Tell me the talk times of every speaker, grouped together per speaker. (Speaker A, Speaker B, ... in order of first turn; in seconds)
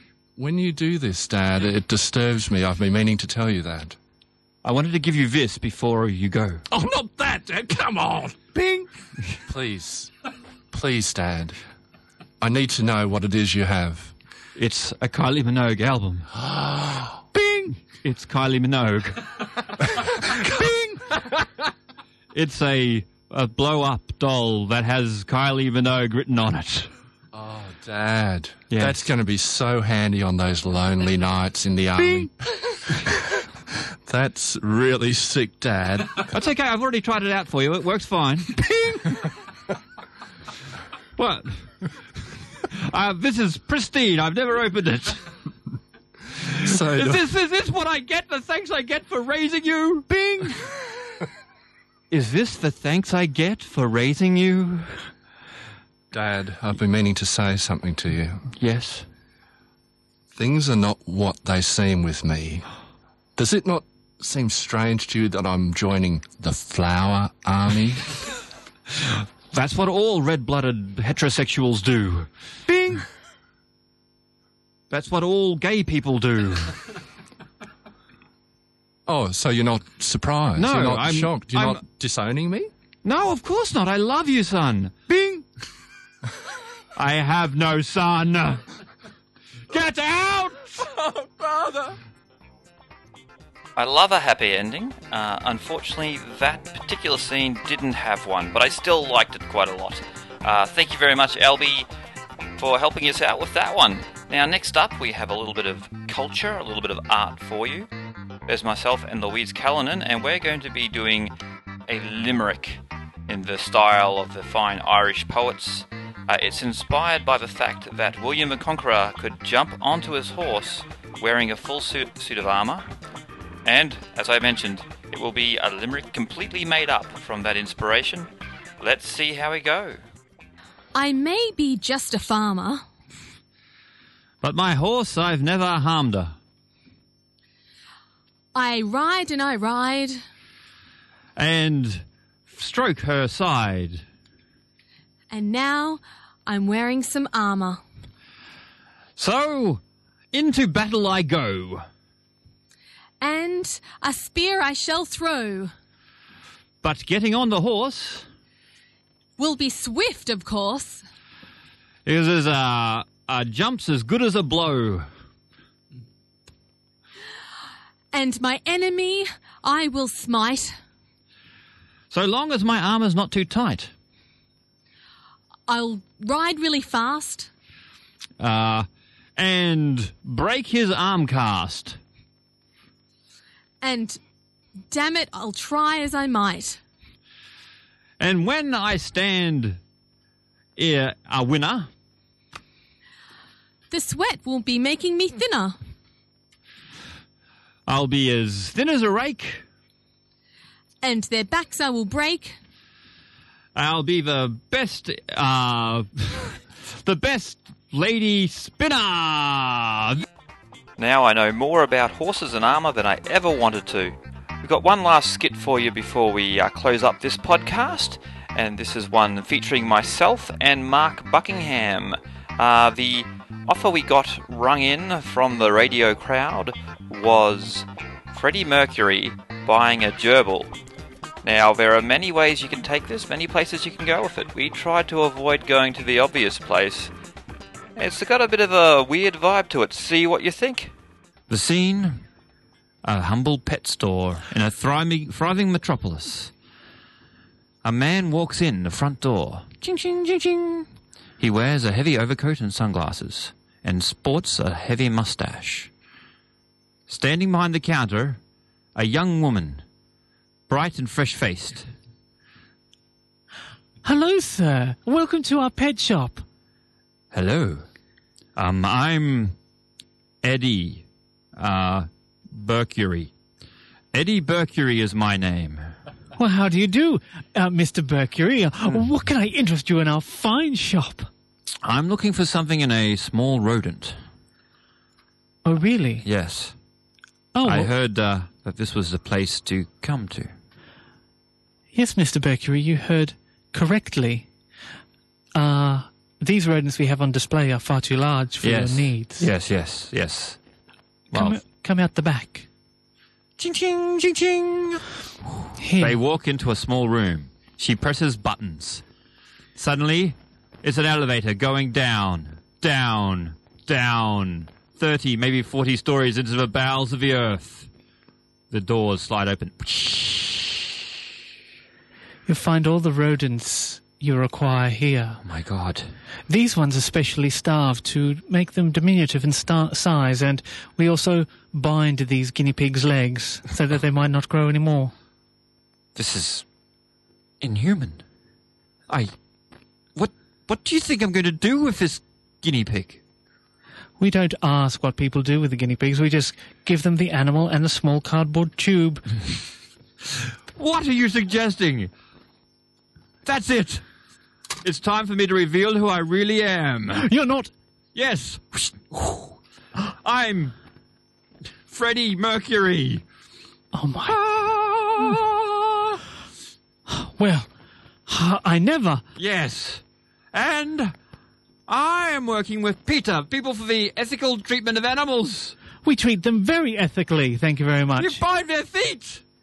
Speaker A: 0.4-4.0, 6.7-8.8, 9.4-10.1, 10.7-11.6, 12.4-14.1, 16.5-17.1, 27.3-33.4, 34.0-36.3, 38.6-39.0, 46.6-47.2, 56.1-58.4, 60.3-62.6, 63.4-68.1, 72.7-73.0, 79.1-82.7, 91.0-91.9
Speaker B: 4.6-6.6, 14.6-16.3, 17.4-21.4, 22.3-26.9, 28.7-29.1, 36.3-38.5, 41.2-41.5, 42.6-45.2, 46.4-50.7, 52.1-54.9, 58.6-59.0, 69.5-72.3, 74.9-76.8, 80.5-81.8, 83.0-85.4, 86.9-88.6, 89.7-90.8, 134.4-136.3, 141.3-144.0, 149.2-149.8, 150.3-151.8, 156.8-158.2, 162.1-165.1, 172.1-173.9, 178.4-178.8, 179.4-182.0, 188.2-189.8, 190.8-191.9, 197.8-199.6, 203.7-210.2, 241.5-242.2, 243.0-246.5, 247.8-250.9, 251.4-255.9, 257.1-258.4, 258.9-259.8, 260.7-261.9, 267.3-267.9, 268.6-269.6, 270.4-271.0, 271.6-273.3, 274.1-275.9, 281.8-284.2, 286.2-286.7, 287.6-290.5, 298.6-300.6, 301.3-301.6, 303.6-305.0, 306.0-309.0, 309.8-317.9, 318.7-320.8, 325.4-326.1, 336.1-336.6, 337.6-338.2, 340.1-343.2, 350.8-352.1, 353.4-354.0, 354.8-357.3, 358.1-360.7, 361.9-363.2, 364.2-366.2, 369.3-370.0, 370.5-371.1, 371.9-375.8, 378.1-379.4
Speaker C: 93.8-101.9, 102.6-107.9, 108.5-111.3, 111.9-122.9, 123.6-128.3, 128.8-130.0, 211.0-230.7, 231.4-237.1, 237.9-240.9
Speaker D: 130.9-132.8, 138.5-140.2, 145.3-147.8, 153.2-155.7, 159.4-161.0, 168.1-170.7, 175.7-177.5, 183.8-184.2, 184.9-186.8, 193.9-195.8, 201.0-202.6
Speaker E: 264.0-266.4, 276.4-281.3, 285.6-286.2, 287.5-287.9, 291.9-294.5, 295.5-299.5, 301.3-302.7, 305.8-306.2, 322.4-325.4, 326.5-335.1, 344.2-349.3, 357.1-357.7, 363.9-364.3, 367.1-367.7, 368.3-369.2, 376.0-378.4